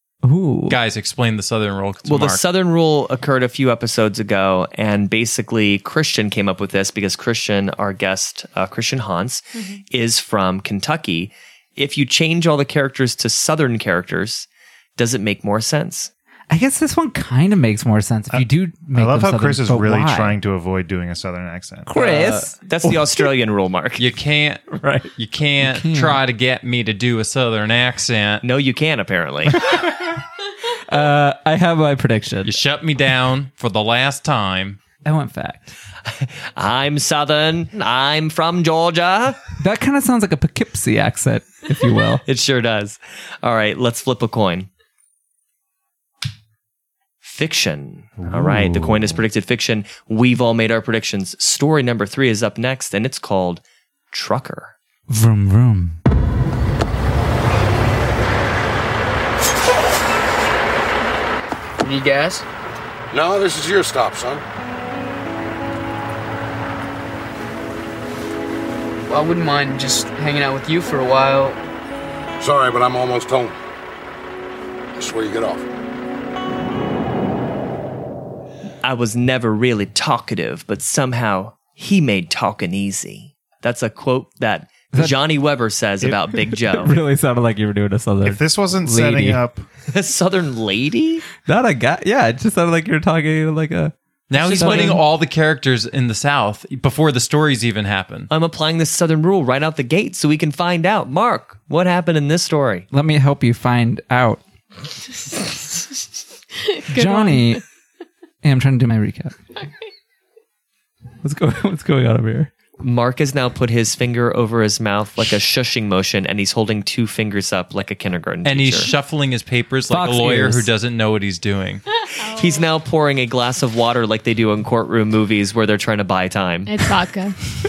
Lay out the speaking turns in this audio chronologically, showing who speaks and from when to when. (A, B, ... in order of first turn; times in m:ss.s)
0:00.2-0:00.8 A
0:00.7-0:02.4 B
0:02.0-0:16.1 C
0:16.5-0:20.4 A
0:18.3-0:21.9 D
0:21.9-0:23.1 A
0:22.0-0:22.5 B
0:22.6-0:24.0 C
0:24.0-0:28.4 B
0:24.7-0:26.2 A
0:28.4-0:29.7 C
0:30.8-0:32.6 A
0:32.4-0:34.8 B
0:35.0-0:35.8 A
0:36.1-0:39.4 C
0:39.6-0:42.2 A
0:42.2-0:44.7 C
0:47.2-0:54.7 C
0:48.2-0:49.2 D
0:55.1-0:56.0 A
1:01.8-1:02.4 E
1:03.1-1:04.4 F
1:09.1-1:11.6 E
1:12.4-1:13.6 F
1:15.0-1:15.6 F
1:18.8-1:27.0 C
1:26.5-1:29.4 A
1:28.2-1:29.6 D
1:29.9-1:31.2 C
1:31.4-1:35.0 A
1:34.3-1:38.3 B
1:34.5-1:35.0 C
1:38.3-1:42.9 C
1:42.9-1:44.4 A
1:46.7-1:47.6 G
1:46.9-1:47.6 A
1:48.4-1:49.4 A
1:51.2-1:52.5 A
1:52.8-1:58.9 C
1:58.4-2:01.8 B
1:59.9-2:00.7 A
2:02.1-2:02.7 G
2:02.4-2:06.7 C
2:06.7-2:07.4 G